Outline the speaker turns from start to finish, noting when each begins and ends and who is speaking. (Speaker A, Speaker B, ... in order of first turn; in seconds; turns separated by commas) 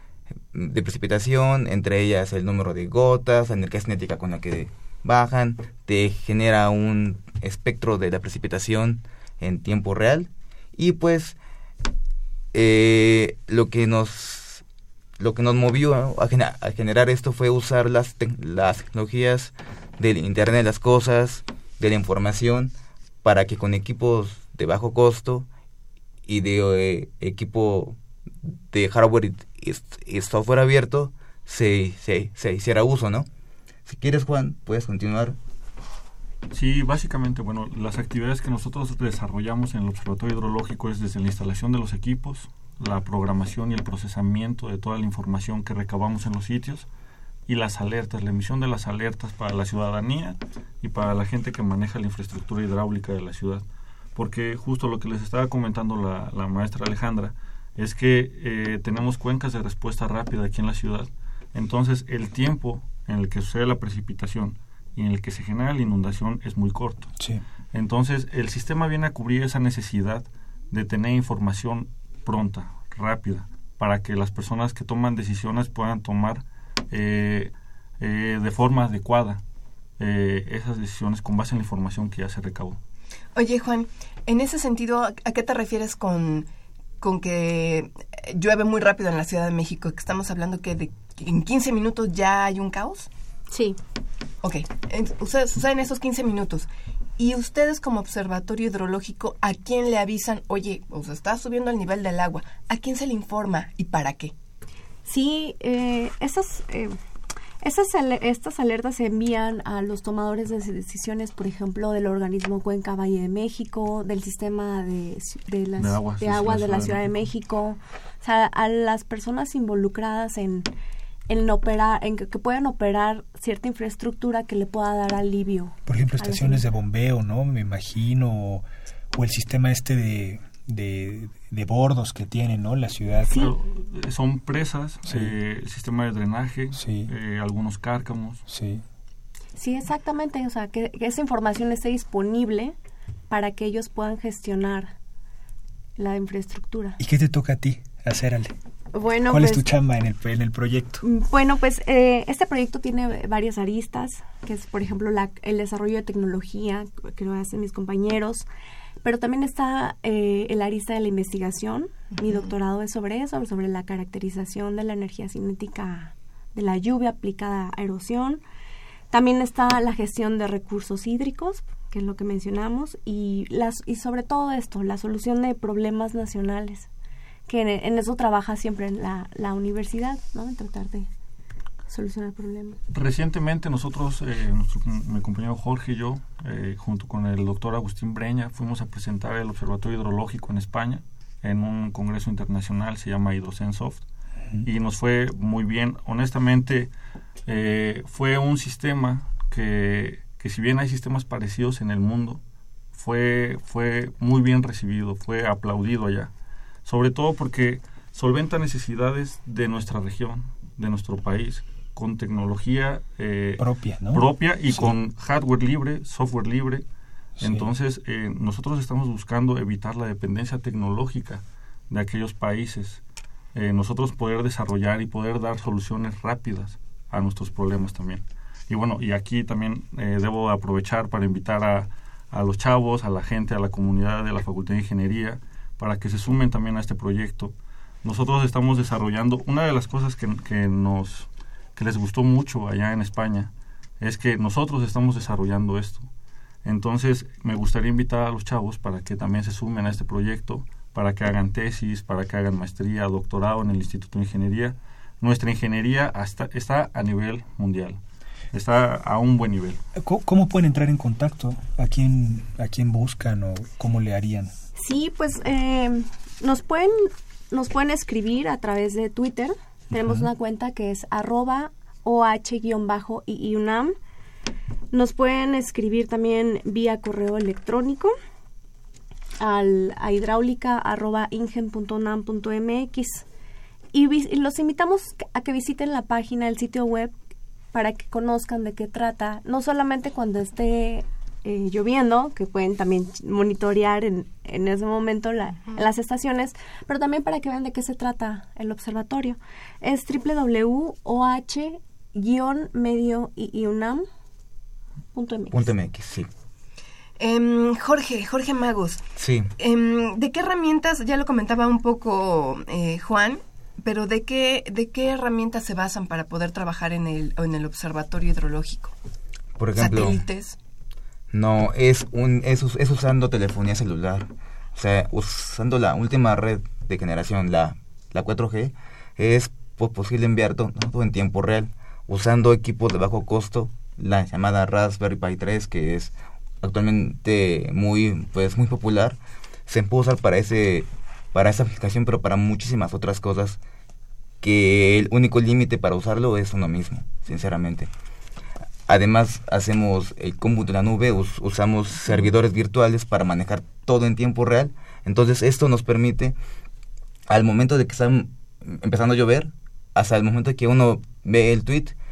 Speaker A: 0.5-11.4, Speaker A: 12.5-14.6, Speaker A: 15.2-22.7, Speaker A: 23.2-25.5, Speaker A: 26.2-33.3, Speaker A: 33.9-35.4, Speaker B: 36.5-46.9, Speaker B: 47.5-53.6, Speaker B: 54.1-67.2, Speaker B: 67.7-79.4, Speaker B: 80.0-82.8, Speaker C: 83.3-86.5, Speaker C: 87.0-93.1, Speaker D: 93.5-93.8, Speaker C: 94.4-104.3, Speaker D: 105.0-106.9, Speaker D: 107.6-120.7, Speaker B: 115.8-117.1, Speaker D: 121.3-126.6, Speaker E: 125.9-133.4, Speaker B: 133.3-138.4, Speaker E: 135.1-135.3, Speaker E: 136.7-137.1, Speaker E: 138.5-138.8, Speaker D: 139.6-142.8, Speaker D: 143.3-144.9, Speaker D: 146.0-147.0, Speaker E: 147.0-148.5, Speaker D: 148.9-149.7, Speaker E: 149.3-151.0, Speaker D: 151.0-158.4, Speaker D: 159.0-168.4, Speaker C: 162.1-162.5, Speaker D: 169.1-176.9, Speaker D: 177.5-181.1, Speaker D: 181.9-182.8, Speaker B: 182.9-194.0, Speaker B: 194.6-196.9, Speaker B: 197.4-202.4, Speaker B: 202.9-206.3, Speaker B: 206.8-216.8, Speaker E: 213.6-214.9, Speaker E: 217.4-217.7, Speaker B: 217.4-223.0, Speaker B: 223.5-246.1, Speaker B: 246.6-258.0, Speaker B: 258.5-259.8, Speaker E: 259.9-264.5, Speaker D: 264.8-273.9, Speaker D: 274.9-278.1, Speaker D: 279.4-283.2, Speaker D: 283.9-287.1, Speaker D: 287.7-304.0, Speaker D: 305.1-305.7, Speaker A: 305.5-306.3, Speaker C: 307.2-309.0, Speaker A: 309.2-309.5, Speaker C: 309.6-318.9, Speaker A: 319.6-320.2, Speaker C: 319.8-320.6, Speaker A: 321.3-343.6, Speaker A: 344.4-347.9, Speaker A: 348.9-356.4, Speaker A: 357.3-361.9